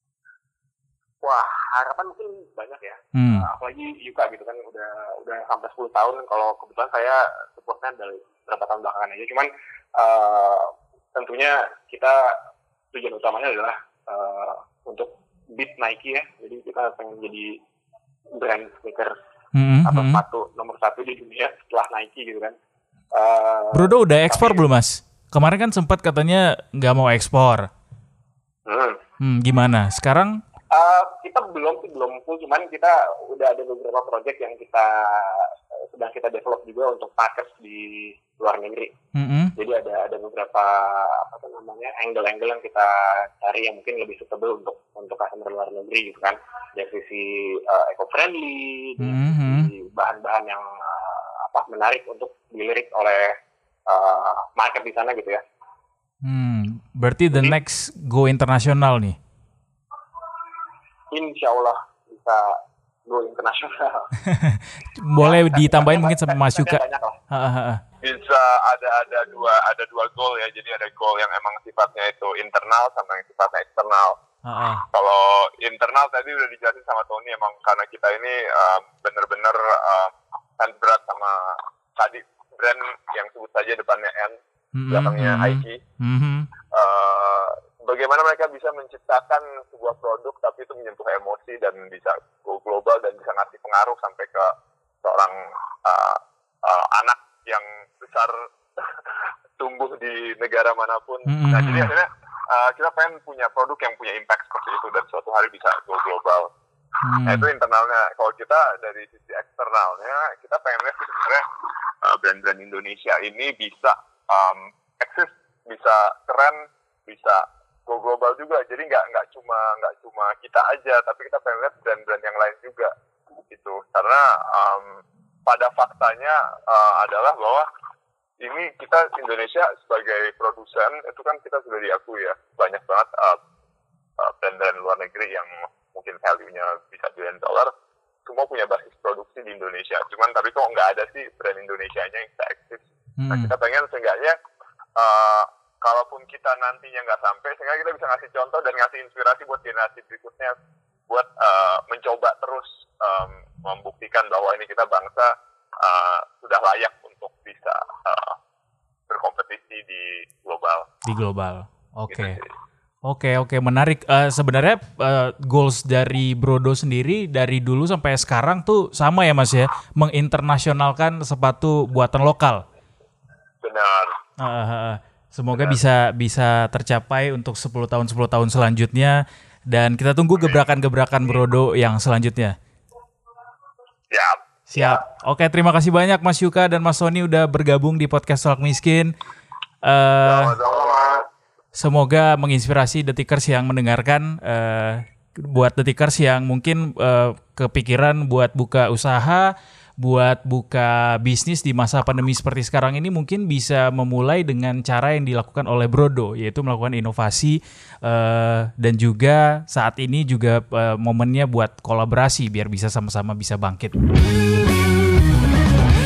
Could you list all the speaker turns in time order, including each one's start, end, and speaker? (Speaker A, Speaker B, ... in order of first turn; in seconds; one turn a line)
Speaker A: 1.2-12.4
Speaker B: 3.1-3.5
Speaker A: 12.9-17.6
Speaker A: 18.3-19.1
Speaker B: 19.5-20.2
Speaker A: 19.8-22.6
Speaker A: 23.1-24.6
Speaker B: 23.7-27.7
Speaker A: 28.6-29.0
Speaker B: 29.2-30.4
Speaker A: 30.7-38.9
Speaker B: 39.1-39.5
Speaker A: 39.5-53.4
Speaker B: 49.0-49.7
Speaker A: 53.9-55.4
Speaker B: 56.2-59.2
Speaker A: 61.1-64.1
Speaker B: 64.2-66.8
Speaker A: 65.2-67.2
Speaker B: 67.3-67.8
Speaker C: 68.0-74.2
Speaker B: 74.4-74.8
Speaker C: 74.9-84.4
Speaker B: 84.7-86.5
Speaker C: 84.9-85.8
Speaker C: 86.7-99.0
Speaker C: 99.6-106.5
Speaker B: 101.2-101.9
Speaker B: 107.0-107.5
Speaker C: 107.2-111.4
Speaker C: 112.0-122.9
Speaker C: 123.5-127.7
Speaker C: 128.4-133.4
Speaker C: 134.2-137.7
Speaker C: 138.2-144.4
Speaker B: 143.2-143.5
Speaker C: 145.0-150.6
Speaker C: 151.1-158.4
Speaker C: 159.1-160.9
Speaker B: 161.0-162.4
Speaker C: 162.1-162.5
Speaker B: 163.1-172.6
Speaker C: 173.6-174.2
Speaker B: 174.4-182.6
Speaker C: 184.1-185.0
Speaker B: 184.7-189.1
Speaker B: 189.8-190.6
Speaker C: 190.2-191.2
Speaker B: 191.8-214.0